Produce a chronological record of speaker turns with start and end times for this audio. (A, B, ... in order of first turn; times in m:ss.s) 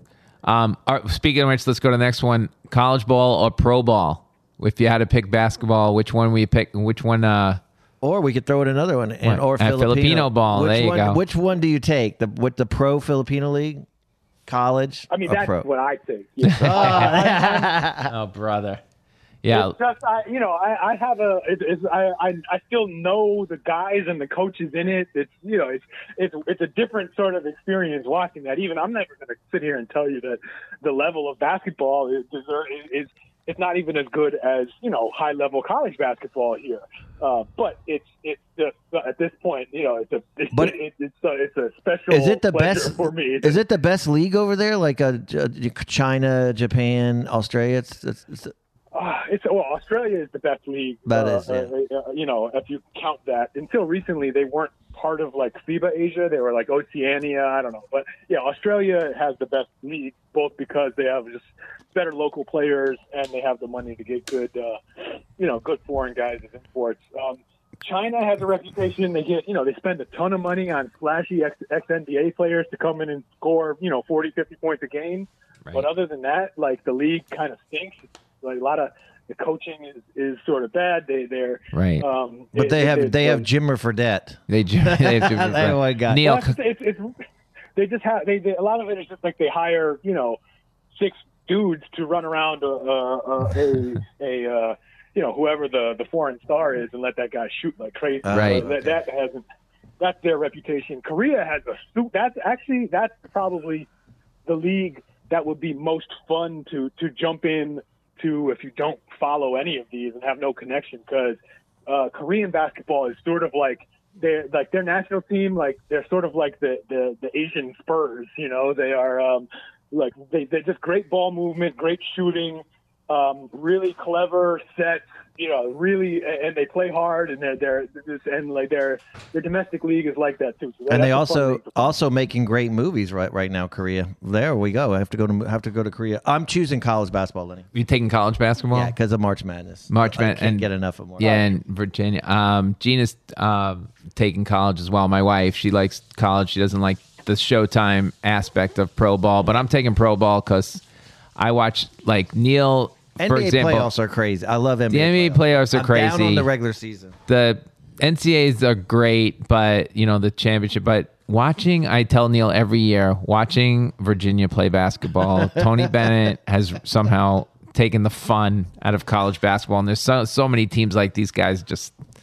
0:00.4-0:07.6 A
0:08.0-0:13.9 B
0:09.2-0:11.2 A
0:14.5-0:15.6 B
0:15.1-0:17.7 C
0:16.4-0:17.3 A
0:16.6-0:18.1 B
0:18.0-0:18.8 A
0:19.4-0:19.7 A
0:19.5-0:43.6 C
0:42.1-0:48.5 B
0:48.9-1:23.4 C
0:51.0-0:51.7 B
1:21.7-1:22.0 A
1:22.5-1:26.2 B
1:24.5-1:26.5 A
1:26.2-1:27.1 C
1:27.8-1:30.4 C
1:31.0-1:39.4 C
1:38.2-1:38.9 B
1:38.3-1:38.6 A
1:40.0-1:43.9 C
1:44.4-2:11.9 C
2:10.9-2:17.7 B
2:17.7-2:18.9 A
2:18.7-2:21.3 B
2:19.9-2:30.8 A
2:21.2-2:21.5 C
2:31.4-2:33.9 A
2:33.2-2:37.2 B
2:34.9-2:36.5 A
2:37.3-2:51.9 A
2:45.4-2:45.9 B